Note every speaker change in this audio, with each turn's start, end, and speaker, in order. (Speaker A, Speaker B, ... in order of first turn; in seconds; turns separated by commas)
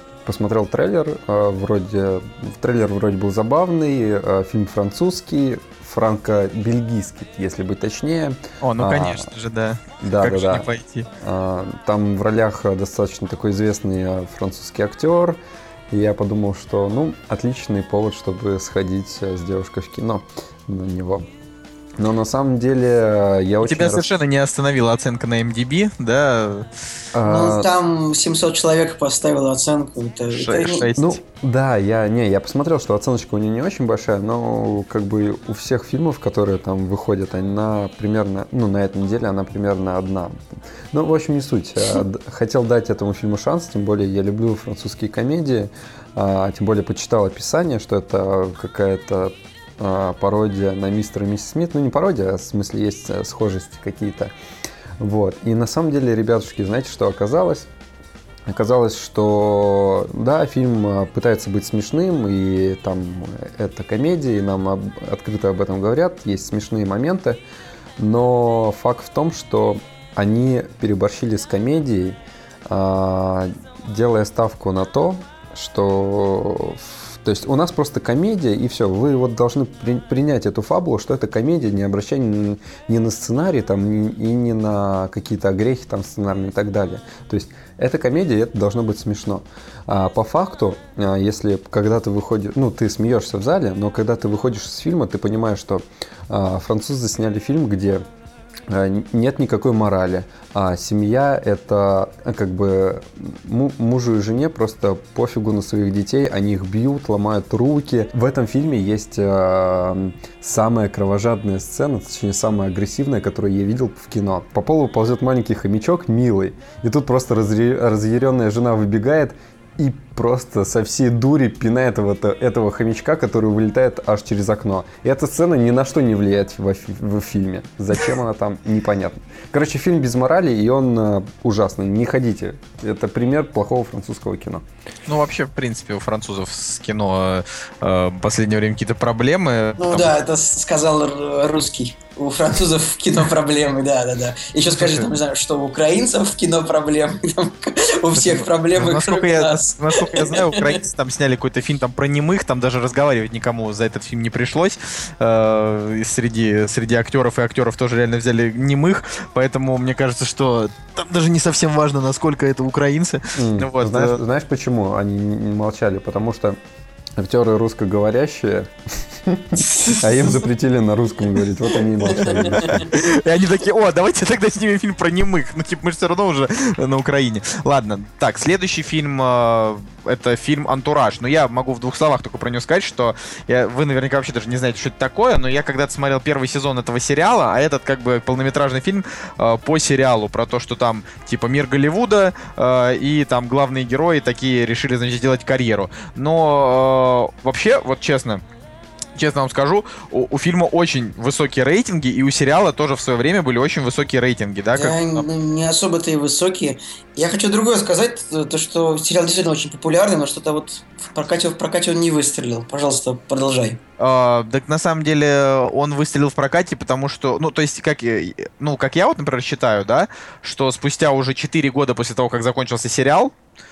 Speaker A: 0.2-9.3, Speaker B: 8.6-11.1, Speaker A: 10.0-15.4, Speaker A: 15.9-21.2, Speaker A: 22.0-24.1, Speaker B: 23.6-26.7, Speaker A: 27.1-27.7, Speaker C: 27.3-30.9, Speaker B: 30.3-31.2, Speaker A: 30.9-40.4, Speaker A: 40.9-54.3, Speaker A: 55.0-57.7, Speaker A: 58.5-67.4, Speaker A: 68.0-98.0, Speaker A: 98.7-134.7, Speaker B: 135.1-140.1, Speaker C: 139.8-150.8, Speaker B: 144.7-145.1, Speaker B: 148.1-164.2, Speaker A: 163.3-166.6, Speaker A: 167.2-172.8, Speaker B: 169.6-170.2, Speaker C: 172.2-172.8, Speaker B: 172.2-198.4, Speaker B: 199.2-205.2, Speaker C: 204.7-213.8, Speaker B: 214.0-223.3